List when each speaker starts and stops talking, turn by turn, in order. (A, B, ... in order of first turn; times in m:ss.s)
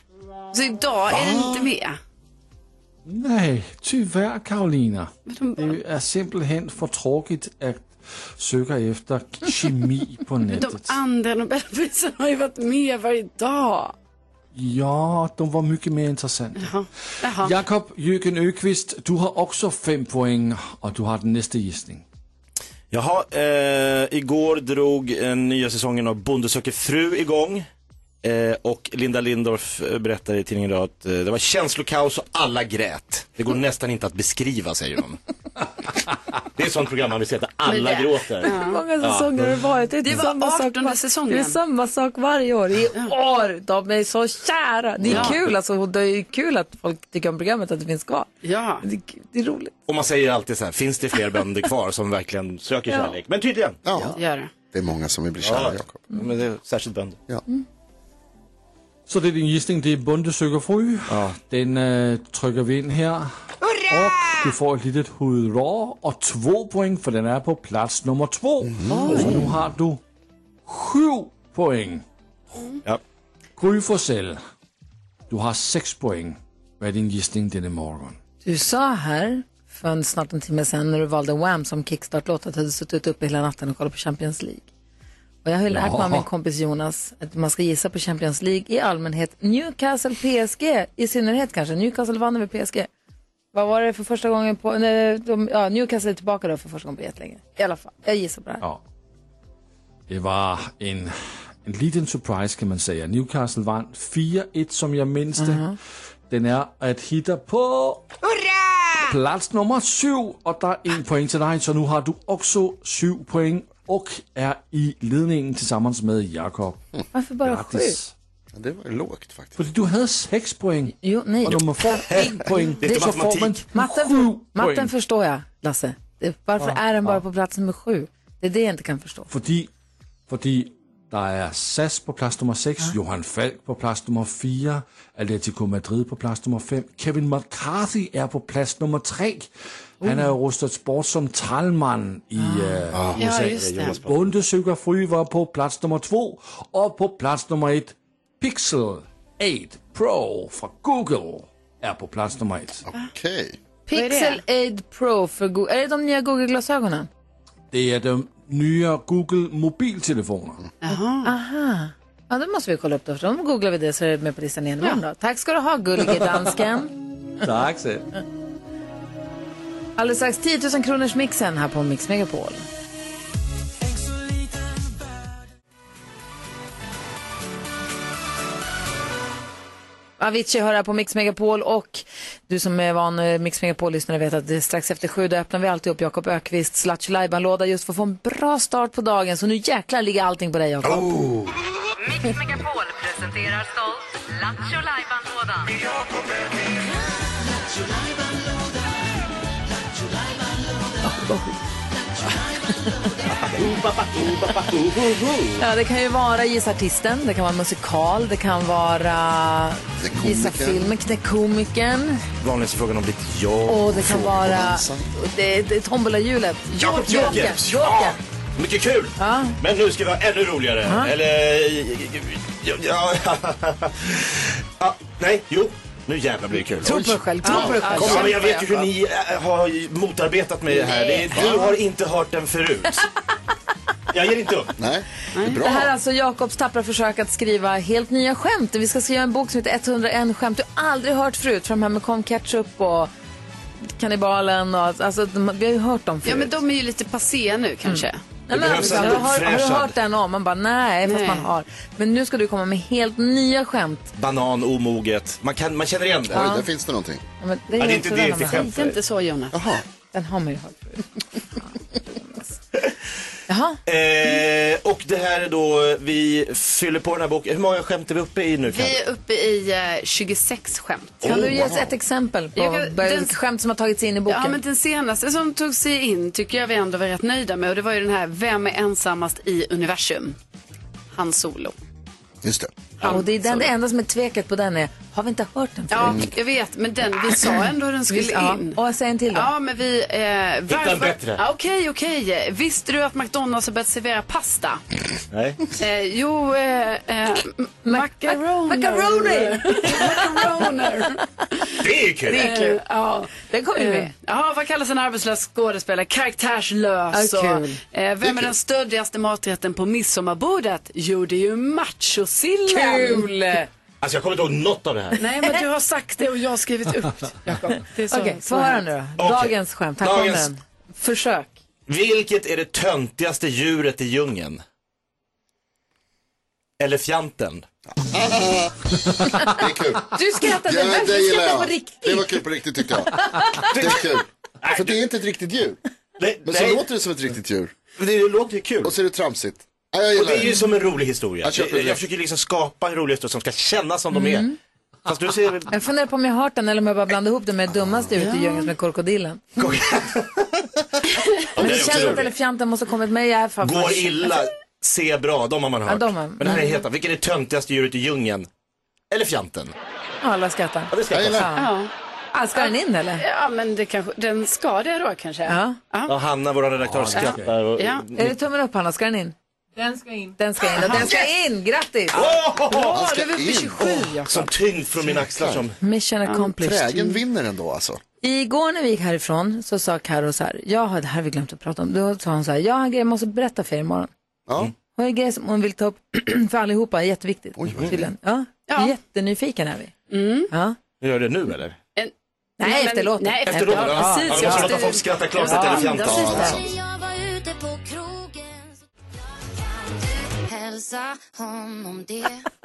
0:00.5-0:02.0 A
0:01.1-0:01.7 B
0:03.1-0:11.0 C
0:05.3-0:05.8 A
0:10.4-0:13.9 A
0:14.5-0:16.7 C
0:16.6-0:17.6 A
0:17.2-0:22.0 C
0:22.9-0:27.7 D
0:28.2-0:35.2 D
0:36.6-0:39.3 D
0:38.4-0:38.8 A
0:38.4-0:48.3 E
0:40.1-0:41.6 A
0:45.0-0:45.4 D
0:48.4-0:48.8 A
0:48.8-0:49.7 E
0:49.9-0:53.8 D
0:53.8-0:54.2 B
0:54.2-0:54.5 A
0:54.7-0:56.0 B
0:55.4-0:57.2 D
0:59.1-1:10.0 C
1:01.1-1:01.4 D
1:08.6-1:09.4 B
1:10.7-1:12.0 C
1:13.6-1:14.4 C
1:15.3-1:18.2 C
1:18.4-1:24.7 E
1:25.4-1:32.9 E
1:25.7-1:26.3 C
1:33.5-1:38.6 E
1:40.1-1:45.7 C
1:45.4-1:45.8 E
1:46.3-1:48.1 C
1:49.0-1:56.8 C
1:57.1-1:58.0 E
1:57.4-1:58.1 C
1:58.5-1:59.6 B
1:59.6-2:04.9 C
2:01.0-2:02.3 E
2:02.1-2:03.6 D
2:02.8-2:09.3 E
2:09.3-2:09.7 C
2:10.3-2:19.5 C
2:20.0-2:32.8 C
2:20.0-2:20.3 E
2:22.4-2:22.9 E
2:23.2-2:24.0 A
2:32.9-2:33.6 B
2:33.9-2:37.1 E
2:33.9-2:34.4 A
2:37.7-2:40.6 C
2:40.8-2:41.3 A
2:41.2-2:46.9 E
2:47.4-2:48.1 C
2:50.0-2:52.7 E
3:00.2-3:11.1 E
3:10.8-3:11.5 D
3:12.1-3:15.7 F
3:21.1-3:21.5 E
3:23.4-3:25.5 D
3:25.6-3:32.2 E
3:30.0-3:30.9 B
3:32.4-3:33.9 D
3:33.7-3:38.2 E
3:33.9-3:35.1 B
3:36.8-3:37.5 A
3:36.8-3:47.0 D
3:39.2-3:39.6 E
3:40.8-3:41.1 E
3:46.8-3:48.3 B
3:46.8-3:48.6 E
3:47.4-3:48.2 A
3:47.8-3:53.0 D
3:50.8-3:51.5 A
3:51.3-3:51.8 B
3:54.1-3:54.7 D
3:54.8-3:55.9 B
3:55.4-3:55.6 A
3:55.6-4:03.1 E
4:04.0-4:06.5 E
4:06.2-4:08.2 A
4:07.8-4:14.1 E
4:08.5-4:09.9 D
4:08.8-4:09.3 A
4:11.0-4:11.5 A
4:14.2-4:16.4 D
4:16.3-4:17.2 B
4:16.3-4:16.7 E
4:17.4-4:18.7 E
4:17.8-4:19.0 D
4:18.5-4:19.6 A
4:19.5-4:19.8 B
4:20.1-4:21.1 E
4:21.6-4:22.5 E
4:23.5-4:23.8 E
4:23.9-4:29.0 D
4:28.7-4:31.5 A
4:31.2-4:34.6 E
4:31.2-4:31.9 B
4:32.6-4:33.4 A
4:34.3-4:40.4 A
4:41.1-4:41.8 A
4:42.4-4:43.1 B
4:43.0-4:43.6 A
4:43.0-4:46.3 E
4:45.9-4:48.8 A
4:48.1-4:49.5 E
4:49.3-4:54.8 A
4:50.7-4:51.4 D
4:55.3-4:55.6 D
4:55.8-5:01.6 A
4:57.9-5:00.6 E
5:01.8-5:02.6 D
5:02.3-5:13.3 A
5:02.3-5:02.8 E
5:03.4-5:04.1 E
5:07.1-5:07.8 E
5:12.7-5:13.7 E
5:14.0-5:15.2 D
5:15.2-5:18.8 A
5:15.4-5:15.6 E
5:18.1-5:21.6 E
5:19.2-5:20.5 D
5:21.9-5:24.6 D
5:26.8-5:27.6 D
5:27.9-5:33.1 B
5:30.1-5:32.4 E
5:33.2-5:33.6 E
5:33.7-5:35.8 B
5:33.7-5:34.1 D
5:34.6-5:35.0 D
5:36.2-5:36.8 D
5:36.4-5:37.7 B
5:38.0-5:38.9 D
5:38.8-5:40.6 B
5:40.1-5:44.5 D
5:41.4-5:42.0 B
5:44.1-5:44.6 E
5:45.1-5:45.7 D
5:45.7-5:49.6 E
5:48.2-5:48.7 A
5:49.6-5:50.6 D
5:51.6-5:52.3 D
5:51.6-5:54.4 E
5:53.6-5:58.5 D
5:55.9-5:56.7 E
5:59.1-5:59.7 D
6:00.2-6:01.7 E
6:00.9-6:01.5 D
6:01.1-6:01.5 B
6:01.6-6:01.9 A
6:02.3-6:03.2 E
6:02.6-6:06.2 A
6:05.5-6:05.8 E
6:06.1-6:08.3 D
6:06.9-6:07.6 C
6:07.2-6:08.0 A
6:08.2-6:09.4 E
6:10.4-6:12.2 E
6:10.7-6:11.3 A
6:12.1-6:13.0 D
6:12.1-6:14.5 A
6:12.8-6:14.2 B
6:14.3-6:15.8 D
6:15.1-6:15.6 B
6:15.8-6:17.2 E
6:16.6-6:18.0 B
6:18.2-6:24.1 E
6:24.5-6:24.7 B
6:25.0-6:29.9 E
6:27.6-6:28.1 B
6:28.7-6:28.9 A
6:30.1-6:30.5 A
6:30.5-6:30.8 E
6:31.0-6:31.8 D
6:32.0-6:36.6 A
6:32.6-6:34.8 E
6:33.5-6:36.4 D
6:35.4-6:36.5 E
6:36.0-6:36.7 B
6:36.4-6:38.8 G
6:39.4-6:42.4 G